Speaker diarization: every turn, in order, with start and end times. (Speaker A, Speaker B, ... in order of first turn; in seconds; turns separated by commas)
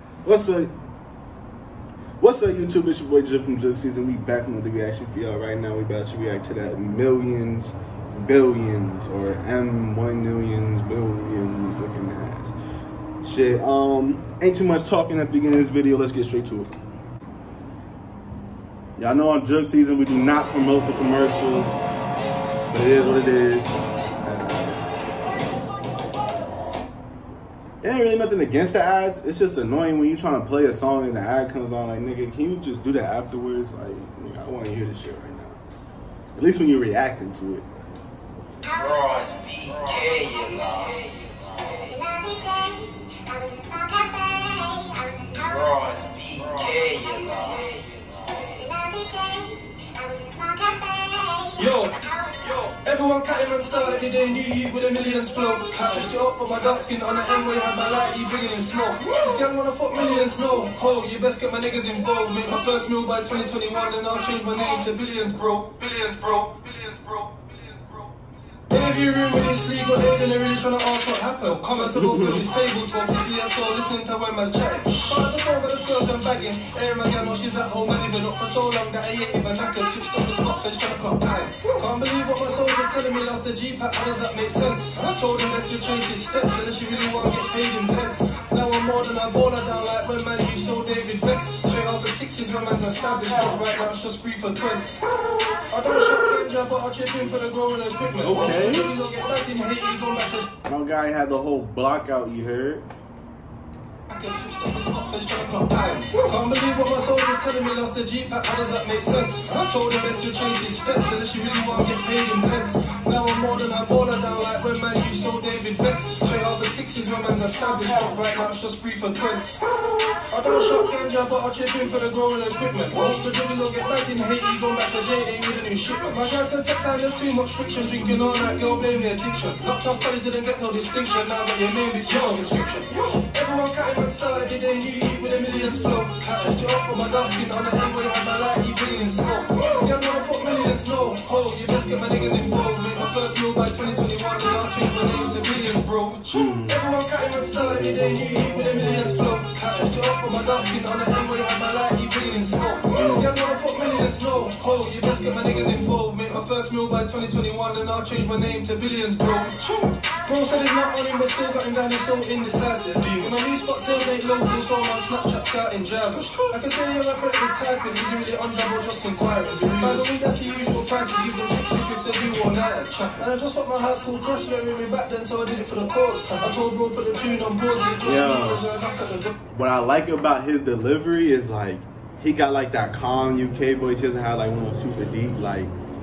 Speaker A: 0.2-0.7, Speaker A: 2.2-12.6, Speaker A: 13.2-16.7, Speaker A: 19.0-21.8, Speaker A: 22.7-24.9, Speaker A: 27.8-35.6, Speaker A: 36.4-37.7, Speaker B: 39.5-40.9, Speaker B: 45.6-47.7, Speaker C: 51.6-68.0, Speaker C: 68.7-95.0, Speaker A: 71.9-72.4, Speaker C: 95.7-100.5, Speaker A: 98.2-98.9, Speaker A: 100.7-102.9, Speaker C: 104.1-119.6, Speaker C: 120.3-179.4, Speaker A: 146.3-146.8, Speaker A: 152.9-153.3, Speaker A: 178.0-178.7, Speaker A: 179.5-185.7